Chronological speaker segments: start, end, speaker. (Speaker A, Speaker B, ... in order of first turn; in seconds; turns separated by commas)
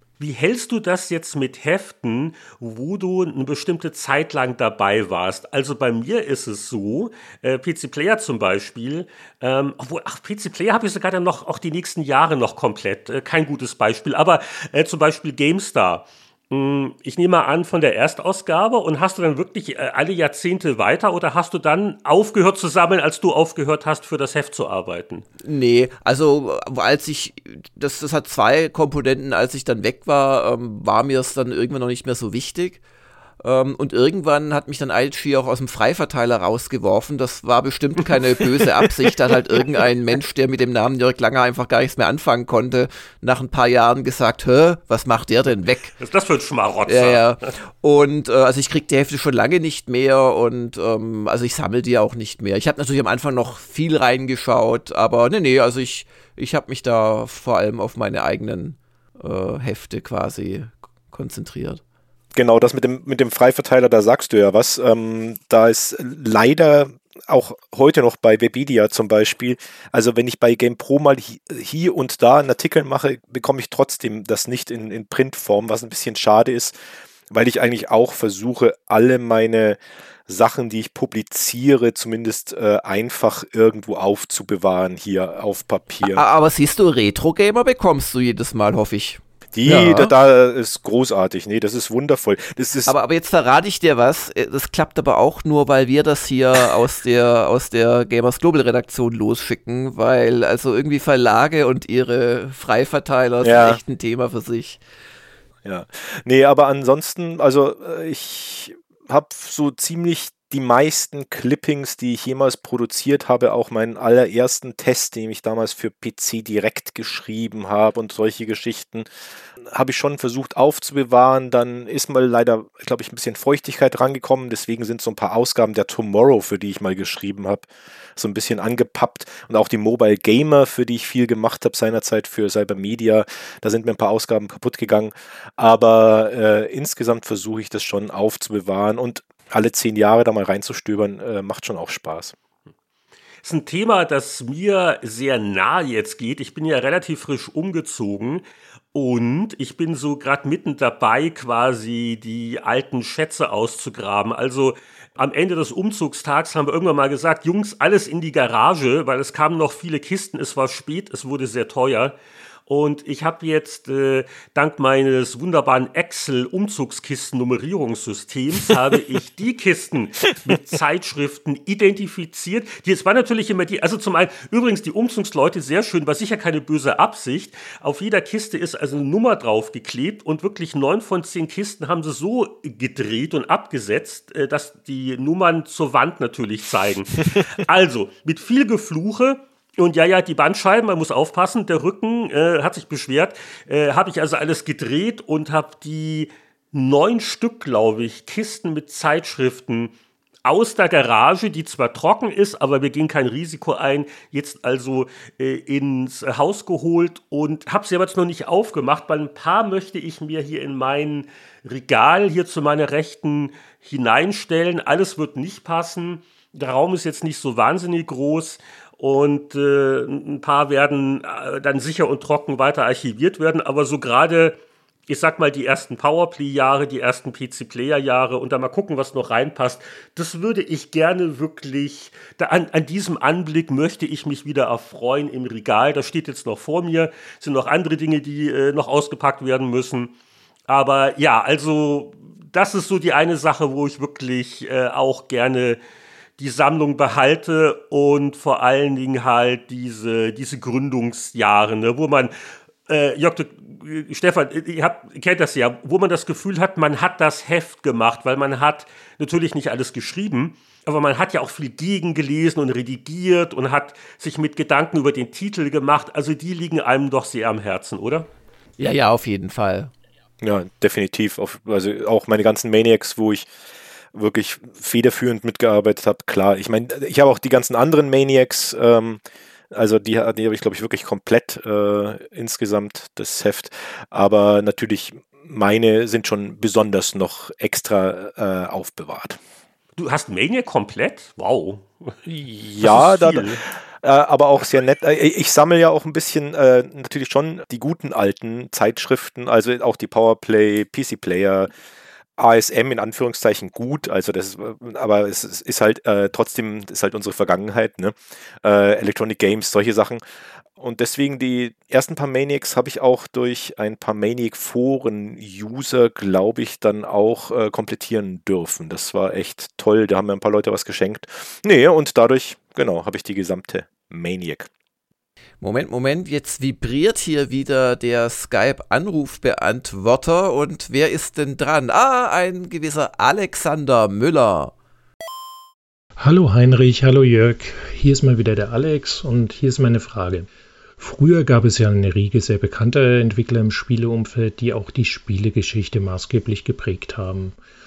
Speaker A: 0.2-25.2, Speaker B: 25.4-32.8, Speaker B: 33.4-45.9, Speaker A: 38.4-38.9, Speaker A: 46.0-47.5, Speaker B: 46.9-61.8, Speaker C: 62.4-76.8, Speaker C: 77.3-86.2, Speaker B: 86.0-90.1, Speaker C: 89.5-92.9, Speaker B: 92.8-104.8, Speaker C: 103.4-103.8, Speaker C: 105.6-119.1, Speaker C: 119.7-142.3, Speaker A: 143.4-162.2, Speaker A: 162.7-199.9, Speaker A: 200.4-224.6, Speaker A: 225.1-240.1, Speaker A: 240.7-245.8, Speaker A: 246.4-252.3, Speaker A: 252.9-268.3, Speaker B: 268.8-269.9, Speaker C: 270.4-273.5, Speaker C: 274.1-279.2, Speaker C: 279.7-289.4, Speaker A: 289.9-292.1, Speaker C: 292.2-301.7, Speaker A: 292.8-293.6, Speaker C: 302.4-310.2, Speaker C: 310.8-324.7, Speaker B: 325.6-334.7, Speaker D: 336.2-340.5, Speaker D: 341.0-347.6